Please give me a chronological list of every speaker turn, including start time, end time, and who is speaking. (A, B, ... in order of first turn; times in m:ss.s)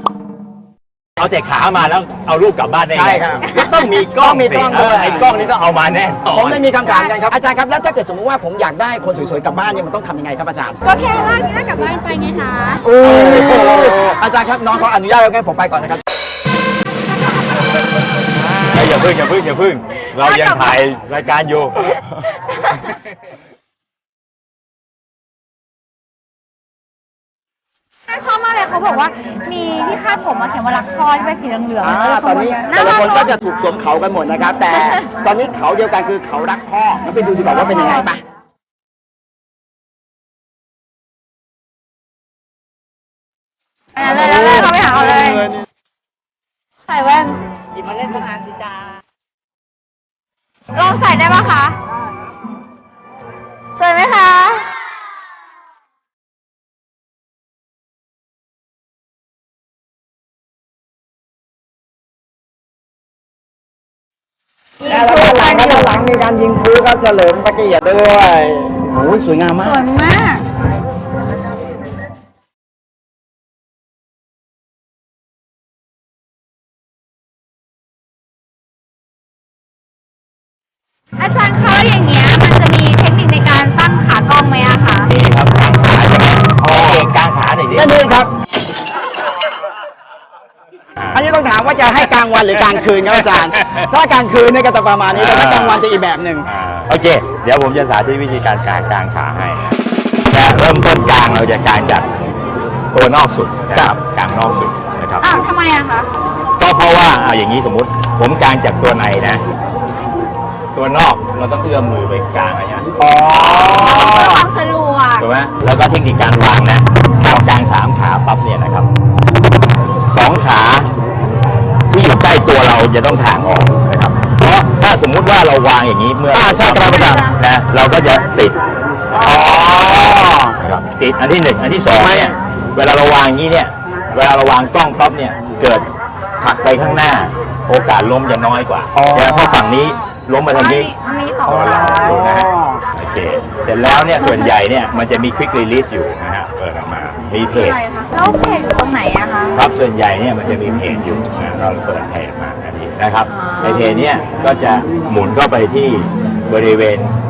0:01.2-0:06.6 A
0:02.9-0:05.3 B
0:06.3-0:11.0 B
0:06.8-0:07.1 C
0:10.8-0:12.8 C
0:12.8-0:16.0 B
0:13.0-0:13.9 A
0:18.7-0:22.0 A
0:20.2-0:20.8 C
0:28.1-0:33.3 C
0:31.8-0:38.2 B
0:34.7-0:35.0 C
0:43.9-0:45.4 C
0:44.4-0:44.8 B
0:46.9-0:47.4 C
0:50.7-0:51.8 C
0:53.8-0:54.7 C
1:04.8-1:05.9 C
1:04.9-1:09.8 B
1:09.6-1:10.5 C
1:21.2-1:25.1 C
1:25.1-1:28.0 A
1:26.6-1:27.1 B
1:27.7-1:28.3 B
1:31.0-1:31.2 A
1:31.1-1:36.5 B
1:32.7-1:33.9 A
1:35.1-1:35.8 A
1:36.5-1:39.7 A
1:40.3-1:42.1 A
1:42.9-1:45.2 A
1:45.2-1:46.1 C
1:46.6-1:49.4 A
1:50.7-1:54.4 A
1:53.0-1:54.4 B
1:53.7-1:55.2 C
1:55.2-1:58.9 A
2:00.1-2:00.9 A
2:01.9-2:08.6 A
2:06.3-2:07.2 B
2:06.8-2:07.4 C
2:09.1-2:10.6 B
2:09.1-2:09.6 A
2:10.6-2:15.9 A
2:12.0-2:12.3 B
2:16.4-2:20.9 A
2:19.0-2:19.6 B
2:20.5-2:22.1 C
2:21.5-2:27.8 A
2:21.6-2:22.8 B
2:27.5-2:29.6 C
2:29.5-2:37.1 A
2:33.3-2:33.9 C